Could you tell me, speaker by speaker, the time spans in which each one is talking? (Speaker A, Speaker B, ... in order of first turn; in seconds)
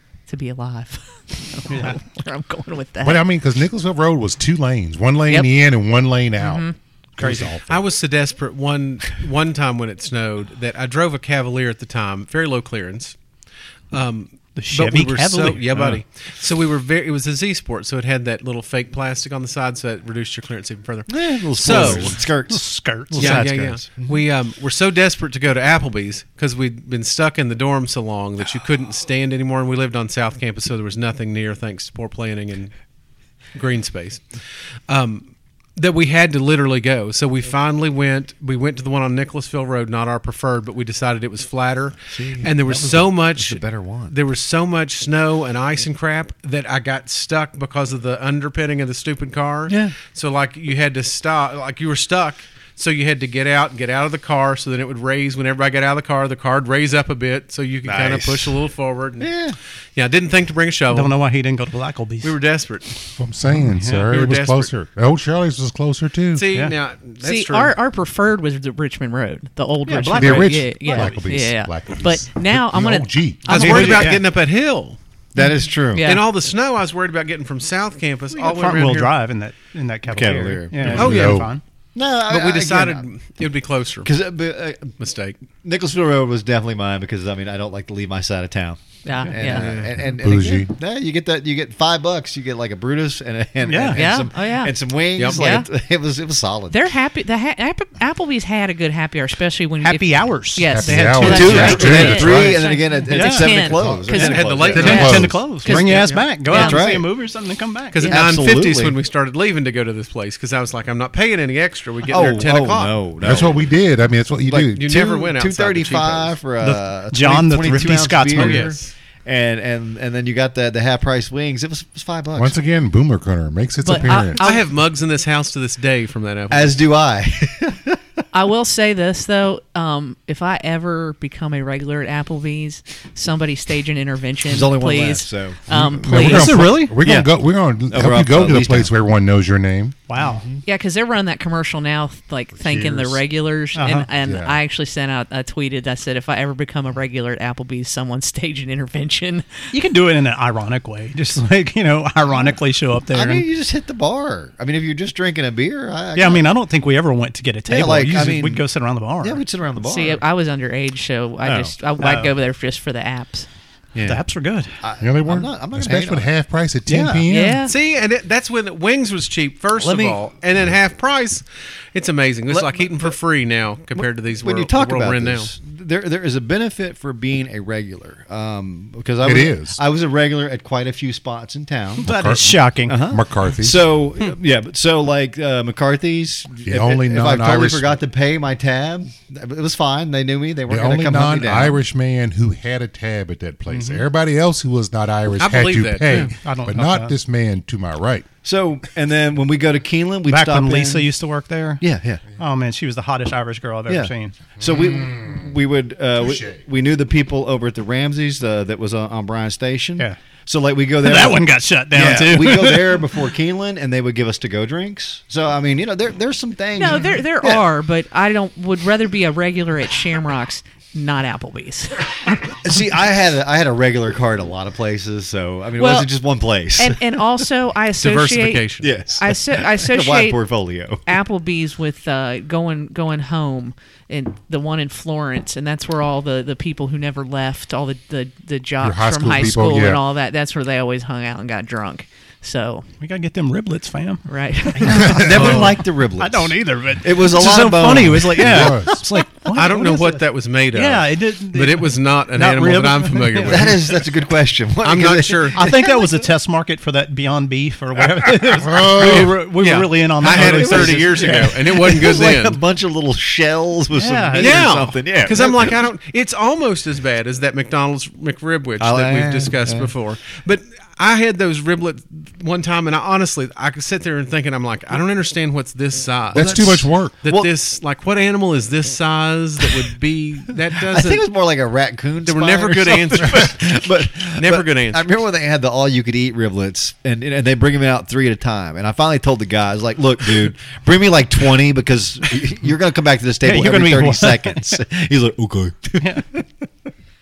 Speaker A: 0.3-3.2, 6.4-6.8, 67.2-73.9, 75.4-76.2, 89.0-89.7, 93.9-95.7, 96.7-106.8, 123.8-124.7, 128.3-136.7, 140.6-149.7, 159.8-163.5, 167.3-167.7, 216.8-222.4, 225.8-226.1, 226.8-230.4, 231.1-242.9, 244.3-245.2
Speaker B: 1.7-2.0, 7.2-7.5, 14.6-15.7, 21.7-23.7, 60.9-62.4, 63.6-64.0, 66.5-66.8, 69.9-71.4, 73.5-74.2, 78.3-81.6, 93.6-94.2, 99.8-108.2, 116.6-118.7, 136.1-137.0, 140.1-140.4, 143.8-144.1, 149.7-153.5, 156.2-159.4, 162.0-162.3, 164.0-164.8, 166.9-167.2, 182.0-183.0, 196.2-197.1, 200.3-201.8, 202.3-204.5, 211.0-213.1, 243.0-253.8, 255.5-261.4, 263.9-264.9, 293.4-294.8
Speaker C: 3.0-6.7, 7.2-7.8, 21.7-22.1, 63.2-66.5, 70.1-73.7, 80.8-81.5, 89.6-90.7, 100.7-102.6, 104.7-105.5, 113.2-114.9, 122.3-124.5, 135.7-140.0, 142.6-143.2, 144.2-144.6, 165.0-167.7, 179.2-179.8, 182.1-183.9, 186.6-188.0, 190.7-198.3, 204.6-205.5, 206.2-206.6, 238.8-240.0, 245.1-245.8, 248.3-249.0, 258.6-259.4, 276.3-277.1
Speaker D: 7.7-13.2, 13.9-22.2, 23.1-32.7, 33.5-59.4, 60.0-61.1, 62.2-63.0, 63.9-64.7, 66.3-67.7, 73.5-75.0, 76.0-79.1, 80.9-81.5, 82.3-84.1, 85.0-85.4, 89.5-89.9, 95.2-95.4, 104.1-106.3, 107.9-113.0, 114.7-116.4, 118.3-118.9, 124.4-126.8, 167.7-175.5, 195.4-196.3, 228.0-228.9, 245.3-245.7, 249.5-253.8, 254.8-255.6, 259.0-262.6, 264.4-281.3, 282.2-283.7, 284.4-285.1
Speaker E: 21.1-24.2, 42.1-44.1, 49.7-50.0, 57.9-58.6, 59.2-59.6, 75.3-76.1, 80.1-81.4, 81.9-83.0, 84.0-84.9, 85.6-96.9, 101.2-105.3, 106.5-107.1, 108.0-109.0, 112.1-113.7, 114.5-122.6, 126.5-128.0, 134.4-135.7, 137.0-137.3, 137.9-138.9, 140.2-140.6, 153.1-156.5, 157.7-160.2, 161.4-161.8, 163.9-164.2, 164.8-166.3, 169.8-170.2, 172.5-173.2, 174.0-182.1, 182.8-191.8, 193.7-194.0, 196.1-196.3, 198.4-201.1, 201.8-202.3, 203.9-217.7, 222.6-227.0, 228.8-231.0, 244.8-248.8, 253.4-256.2, 260.2-265.8, 268.8-269.9, 276.4-277.5, 280.8-296.7